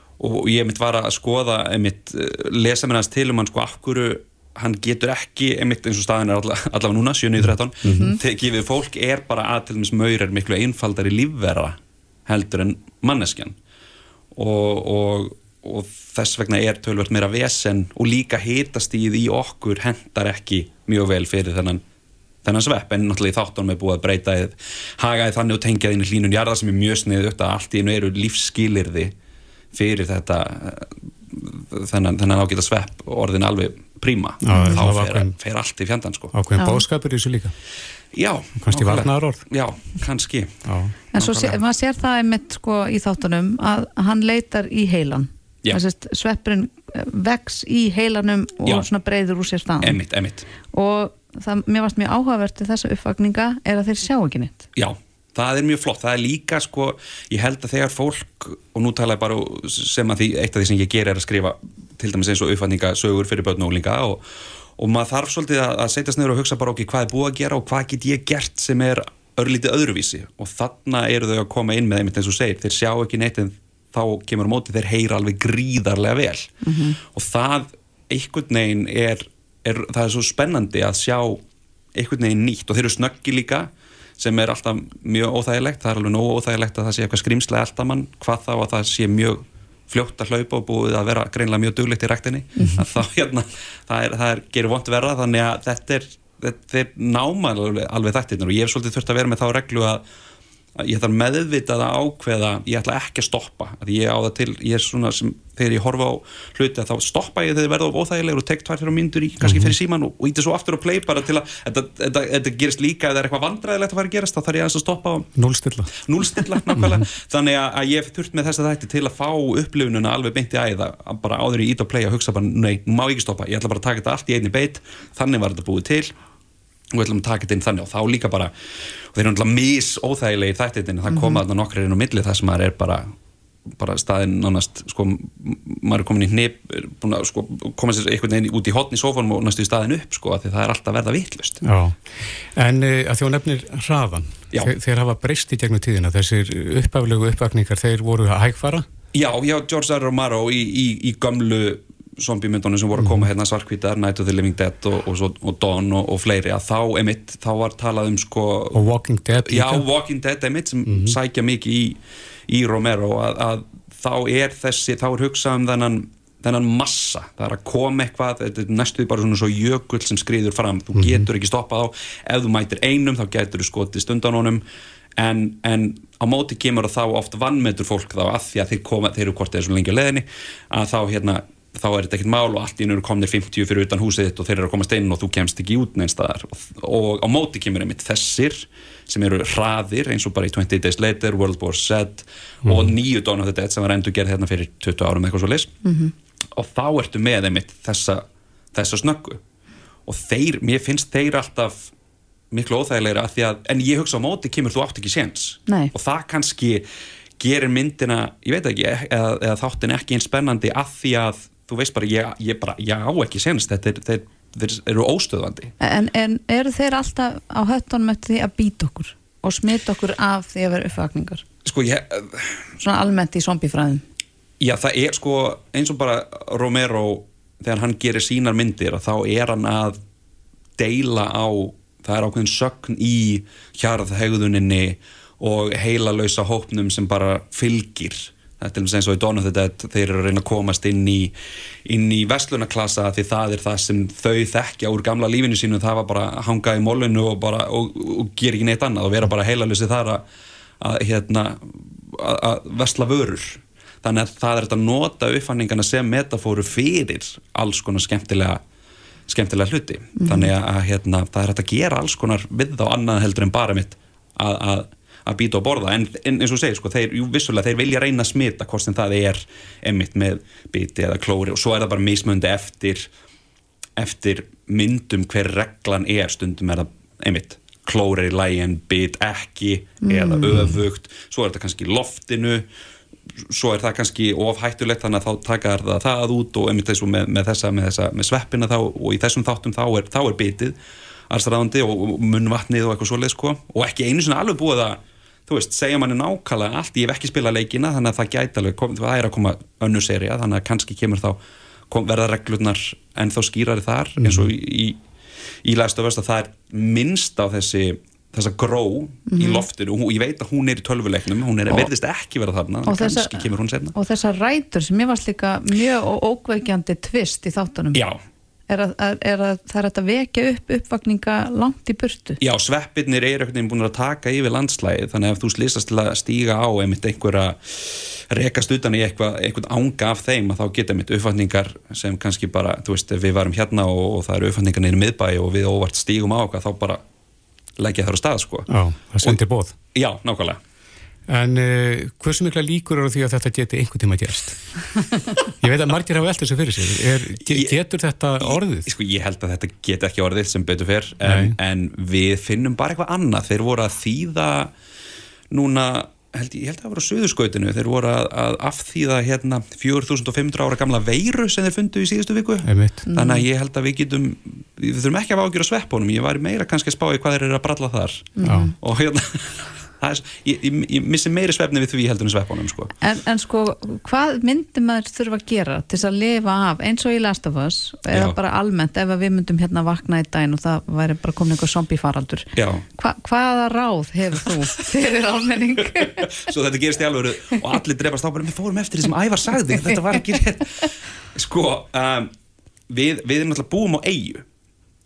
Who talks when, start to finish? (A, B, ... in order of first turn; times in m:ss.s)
0:00.2-0:13.6 A
0:07.8-0:08.2 B
0:07.9-0:08.2 C
0:14.3-0:21.8 A
0:22.4-0:29.1 A
0:29.7-0:36.3 A
0:34.4-0:35.4 B
0:34.5-0:34.8 C
0:36.3-0:37.5 B
0:36.6-0:36.8 C
0:38.1-0:40.6 A
0:38.6-0:39.4 B
0:40.6-0:41.0 B
0:41.1-0:50.0 C
0:41.2-0:41.6 A
0:49.8-0:50.5 A
0:50.6-0:54.7 C
0:54.8-1:04.2 A
1:04.8-1:16.5 A
1:16.6-1:17.0 C
1:17.1-1:21.4 A
1:21.9-1:40.0 A
1:40.8-1:55.3 A
1:49.4-1:49.7 B
1:55.3-1:57.0 B
1:56.0-2:06.1 A
2:06.9-2:08.5 A
2:09.1-2:13.1 A
2:11.1-2:11.4 C
2:13.7-2:21.6 A
2:21.6-2:28.8 B
2:29.1-2:38.8 A
2:33.0-2:33.3 B
2:38.7-2:39.8 B
2:39.3-2:54.6 A
2:40.8-2:41.2 B
2:50.9-2:51.3 B
2:55.2-3:15.7 A
3:12.6-3:12.9 B
3:15.8-3:16.1 C
3:16.6-3:19.4 A
3:20.0-3:21.9 A
3:22.5-3:26.8 A
3:25.7-3:25.9 C
3:27.4-3:35.7 A
3:35.8-3:41.4 C
3:41.6-3:42.6 A
3:42.8-3:44.0 C
3:44.6-3:50.0 A
3:50.8-4:01.3 A
4:01.8-4:10.2 A
4:10.8-4:18.6 A
4:19.3-4:33.1 A
4:20.2-4:20.5 C
4:34.0-4:42.6 A
4:40.0-4:40.7 C
4:43.5-4:50.8 A
4:51.3-5:05.0 A
5:04.2-5:04.5 B
5:05.6-5:13.9 A
5:09.3-5:09.6 C
5:12.8-5:18.0 C
5:17.9-5:18.2 A
5:18.7-5:22.4 C
5:22.4-5:37.0 A
5:37.8-5:38.7 A
5:38.7-5:39.8 B
5:39.9-5:40.6 A
5:41.3-5:44.7 B
5:45.6-5:48.9 B
5:47.4-5:47.7 A
5:48.4-5:54.7 A
5:51.2-5:51.6 B
5:55.5-6:12.9 A
6:02.6-6:03.0 B
6:03.1-6:03.4 C
6:08.4-6:08.7 C
6:08.4-6:08.7 B
6:13.0-6:26.3 C
6:18.1-6:18.4 A
6:22.6-6:22.8 A
6:26.0-6:30.7 A
6:31.3-6:32.3 A
6:32.9-6:34.4 A